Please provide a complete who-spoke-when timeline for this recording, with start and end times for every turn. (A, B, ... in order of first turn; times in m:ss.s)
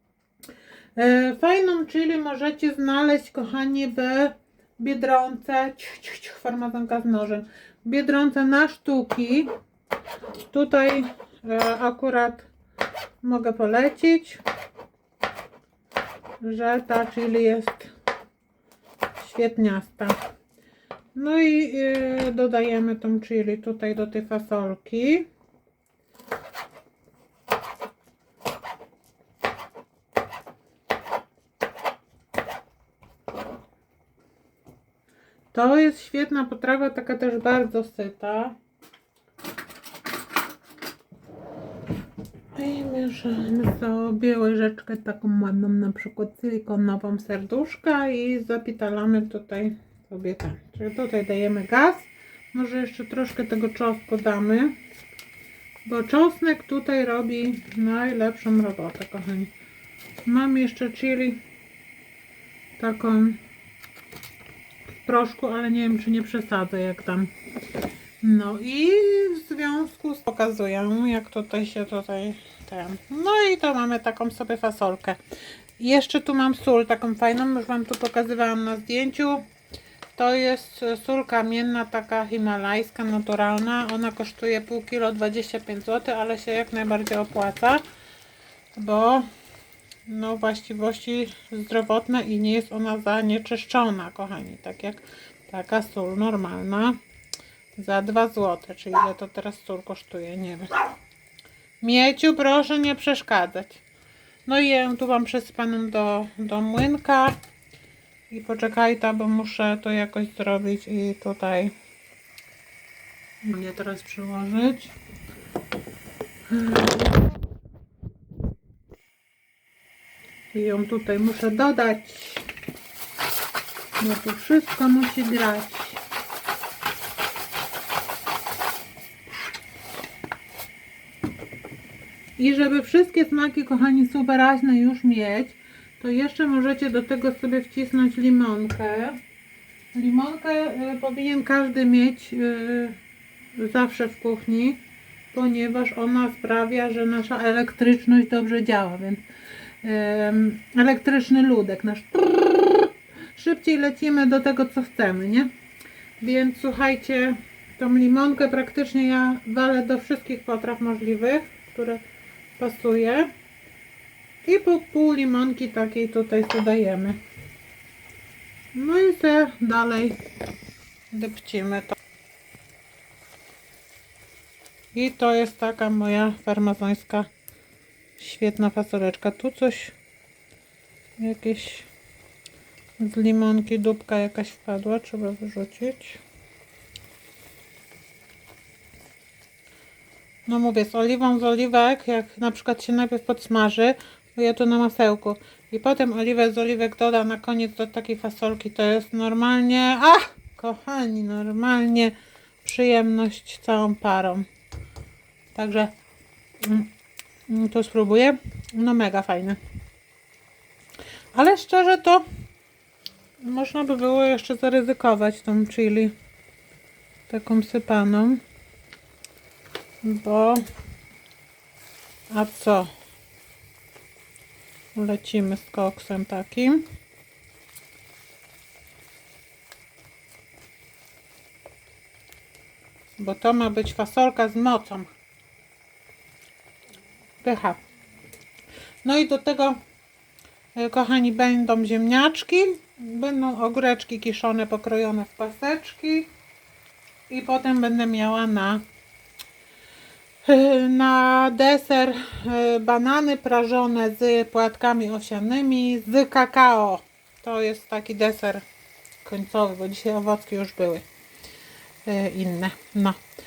0:01.0-0:09.5 A
0:10.4-0:12.5 A
0:13.2-0:14.4 A
0:16.4-0:17.9 A
0:19.2-0:20.2 A
0:21.1-0:25.2 A
0:35.5-0:38.5 A
0:42.5-0:54.7 A
0:55.8-0:59.5 A
1:00.2-1:01.4 A
1:02.8-1:03.4 A
1:05.0-1:07.3 A
1:08.2-1:15.2 A
1:15.8-1:19.4 A
1:20.2-1:27.8 A
1:28.8-1:29.2 A
1:30.1-1:37.0 A
1:37.8-1:40.8 A
1:41.8-1:43.8 A
1:44.4-1:47.4 A
1:48.3-1:51.7 A
1:53.4-1:54.9 A
1:56.5-1:57.2 A
2:00.5-2:02.4 A
2:04.0-2:06.0 A
2:12.4-2:19.2 A
2:19.9-2:23.0 A
2:23.5-2:24.8 A
2:25.3-2:29.2 A
2:29.8-2:35.5 A
2:36.2-2:42.0 A
2:42.6-2:43.3 A
2:44.4-2:47.2 A
2:48.7-2:50.2 A
2:51.1-2:51.9 A
2:54.9-2:57.3 A
2:58.2-2:59.9 A
3:01.2-3:01.9 A
3:03.0-3:06.2 A
3:10.4-3:24.4 A
3:25.5-3:25.9 A
3:26.6-3:26.9 A
3:27.5-3:29.6 A
3:31.3-3:32.2 A
3:33.4-3:36.1 A
3:37.3-3:38.4 A
3:40.0-3:40.6 A
3:42.3-3:42.9 A
3:44.9-3:46.8 A
3:53.2-3:55.1 A
3:57.4-3:57.8 A
3:59.0-3:59.8 A
4:00.7-4:06.3 A
4:07.3-4:08.8 A
4:10.4-4:18.6 A
4:19.2-4:21.0 A
4:22.0-4:23.2 A